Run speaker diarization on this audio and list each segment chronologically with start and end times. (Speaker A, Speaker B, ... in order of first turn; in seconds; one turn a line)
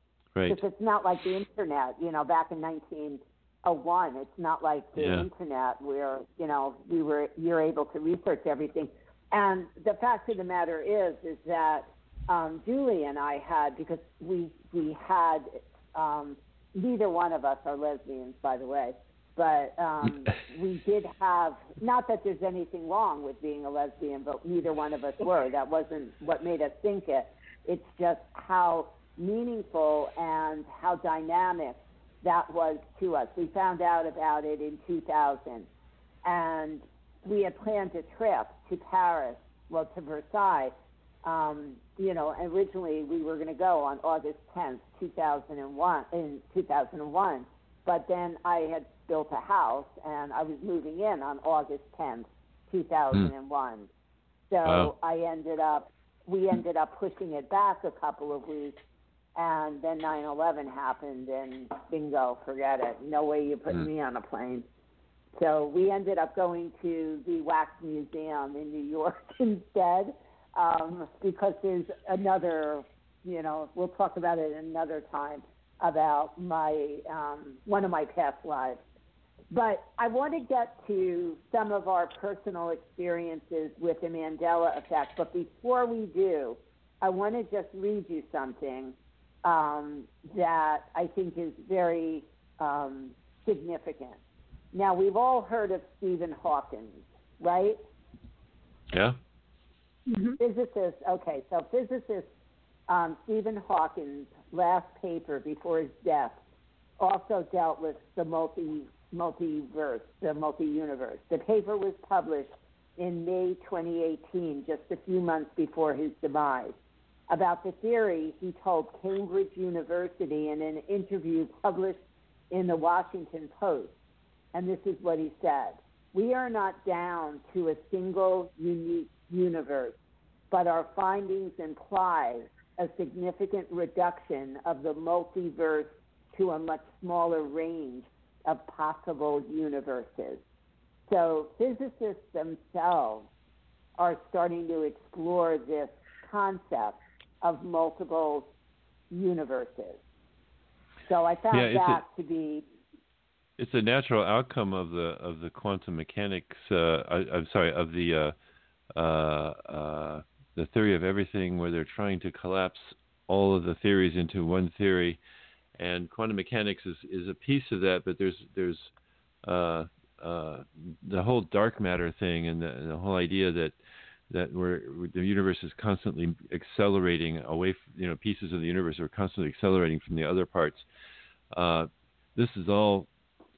Speaker A: 0.3-0.6
Speaker B: 0.5-35.7
Speaker A: 5.0-5.3
Speaker B: 36.2-53.9
Speaker B: 54.5-58.8
Speaker A: 54.6-54.9
Speaker B: 59.4-64.7
Speaker B: 65.4-78.8
Speaker B: 79.5-94.2
Speaker B: 94.7-97.8
Speaker A: 98.9-99.2
Speaker B: 100.4-102.3
Speaker B: 102.9-106.4
Speaker B: 107.0-116.8
Speaker B: 117.3-122.0
Speaker B: 122.5-124.0
Speaker B: 124.5-130.0
Speaker B: 130.5-140.4
Speaker B: 141.1-143.3
Speaker B: 144.0-148.5
Speaker B: 149.1-150.0
Speaker B: 151.1-152.7
Speaker A: 151.5-152.0
Speaker A: 153.6-158.3
Speaker A: 158.9-165.2
Speaker A: 165.8-168.9
Speaker A: 169.4-173.8
Speaker A: 174.3-180.9
Speaker A: 181.5-183.1